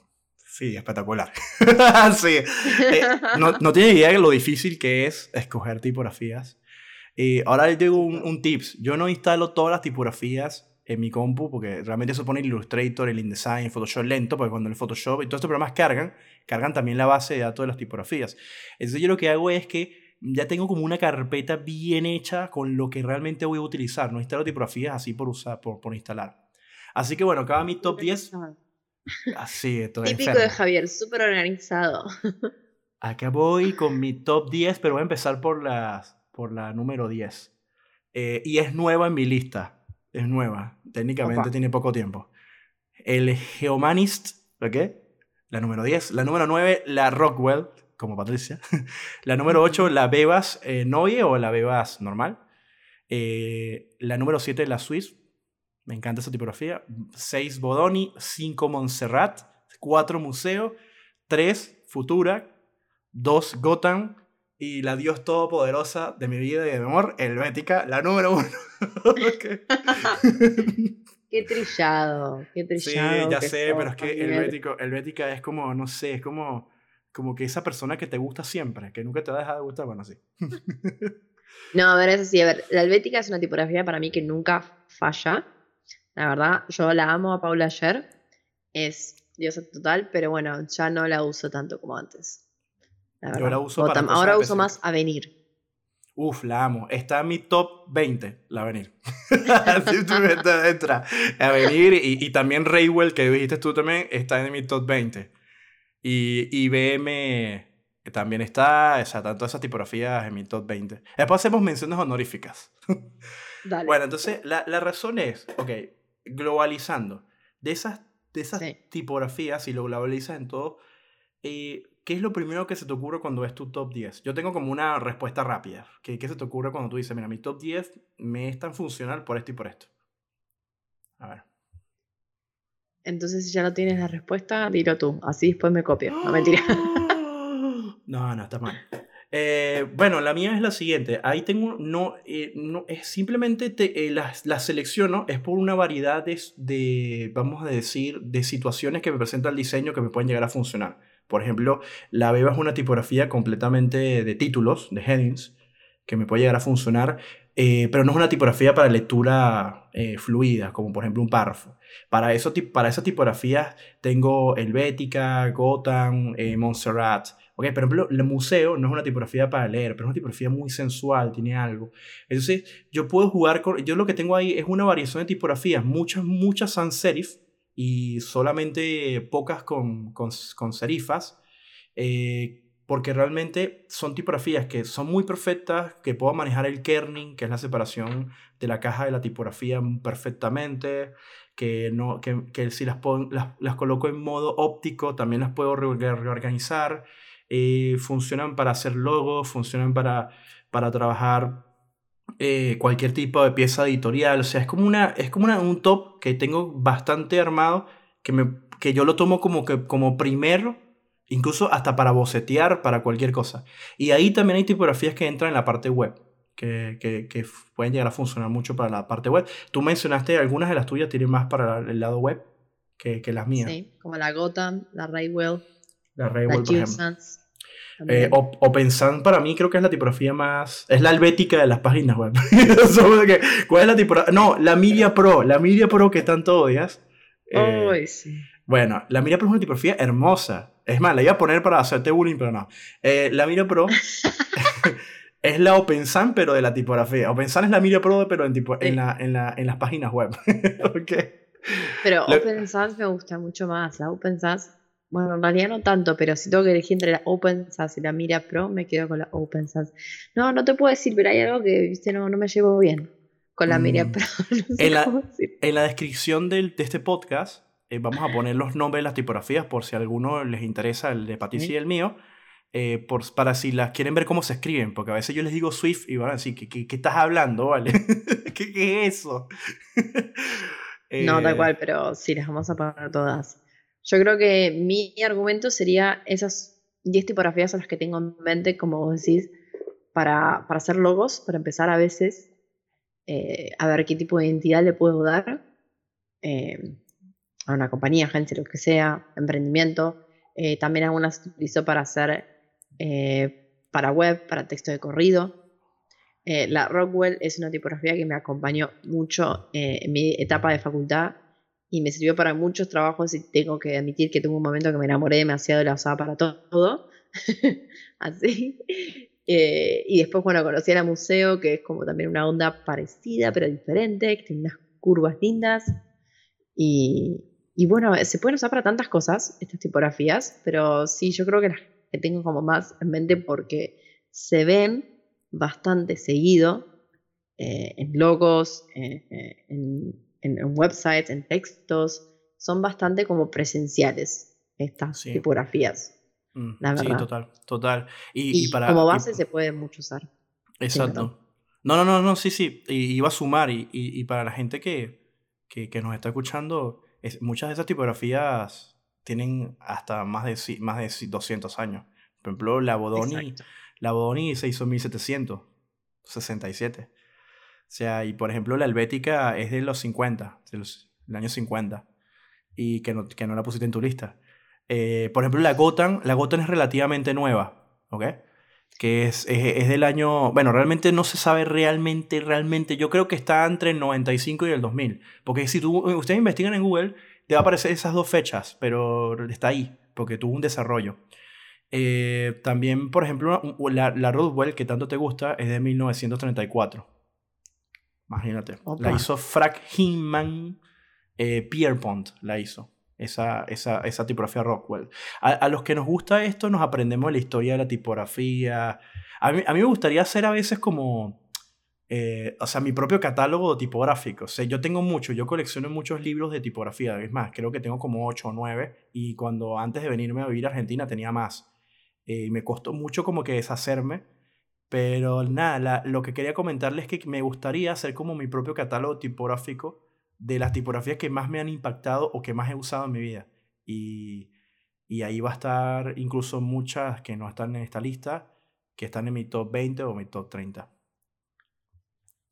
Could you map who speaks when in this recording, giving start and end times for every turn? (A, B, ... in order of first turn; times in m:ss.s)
0:00.5-0:06.6 A
0:02.7-0:03.5 B
0:07.2-0:26.4 A
0:07.9-0:08.3 B
0:27.0-0:28.3 A
0:27.8-0:28.6 B
0:29.3-0:30.6 A
0:30.0-0:32.5 B
0:33.0-0:37.5 A
0:38.1-0:42.3 A
0:41.2-0:41.5 B
0:43.0-0:44.9 A
0:45.5-0:48.6 A
0:49.2-0:52.4 A
0:49.5-0:49.9 B
0:53.1-0:55.1 A
0:55.9-1:00.8 A
1:01.3-1:02.5 A
1:03.1-1:10.9 A
1:09.9-1:10.1 B
1:11.3-1:14.5 B
1:12.8-1:21.1 A
1:21.7-1:25.4 B
1:26.2-1:28.1 B
1:28.7-1:32.4 B
1:33.2-1:35.3 B
1:33.3-1:34.8 A
1:36.2-1:45.3 A
1:46.0-1:52.7 A
1:53.6-1:54.0 B
1:53.9-2:00.8 A
2:01.4-2:09.9 A
2:11.2-2:11.4 A
2:13.0-2:17.1 B
2:16.1-2:35.5 A
2:36.0-3:01.4 A
3:02.0-3:21.6 A
3:22.4-3:42.4 A
3:43.0-3:43.8 A
3:43.5-3:45.6 B
3:46.2-3:47.0 A
3:46.5-3:47.4 B
3:48.0-3:48.4 B
3:48.1-3:58.0 A
3:57.5-3:58.5 B
3:58.7-4:04.0 A
4:04.1-4:04.5 B
4:04.6-4:12.5 A
4:12.0-4:25.5 B
4:23.7-4:24.2 A
4:24.8-4:32.2 A
4:32.7-4:41.7 A
4:41.2-4:49.5 B
4:50.1-4:52.5 B
4:53.3-4:55.6 B
4:56.4-4:57.0 B
4:57.7-5:02.5 B
5:03.0-5:05.5 B
5:06.5-5:11.4 B
5:11.9-5:25.9 B
5:26.8-5:36.9 B
5:37.6-5:46.1 B
5:45.1-5:45.4 A
5:46.5-5:49.4 A
5:46.8-5:47.3 B
5:48.5-5:50.3 B
5:50.8-5:55.1 A
5:50.9-5:51.3 B
5:55.7-6:05.6 A
6:03.1-6:03.6 B
6:06.2-6:07.1 A
6:07.9-6:12.0 A
6:12.8-6:14.4 A
6:14.9-6:18.4 A
6:19.0-6:31.2 A
6:31.9-6:37.1 A
6:38.3-6:40.8 A
6:38.9-6:39.2 B
6:41.4-6:51.4 A
6:52.1-7:01.6 A
7:02.2-7:04.2 A
7:04.9-7:14.5 A
7:15.1-7:20.9 A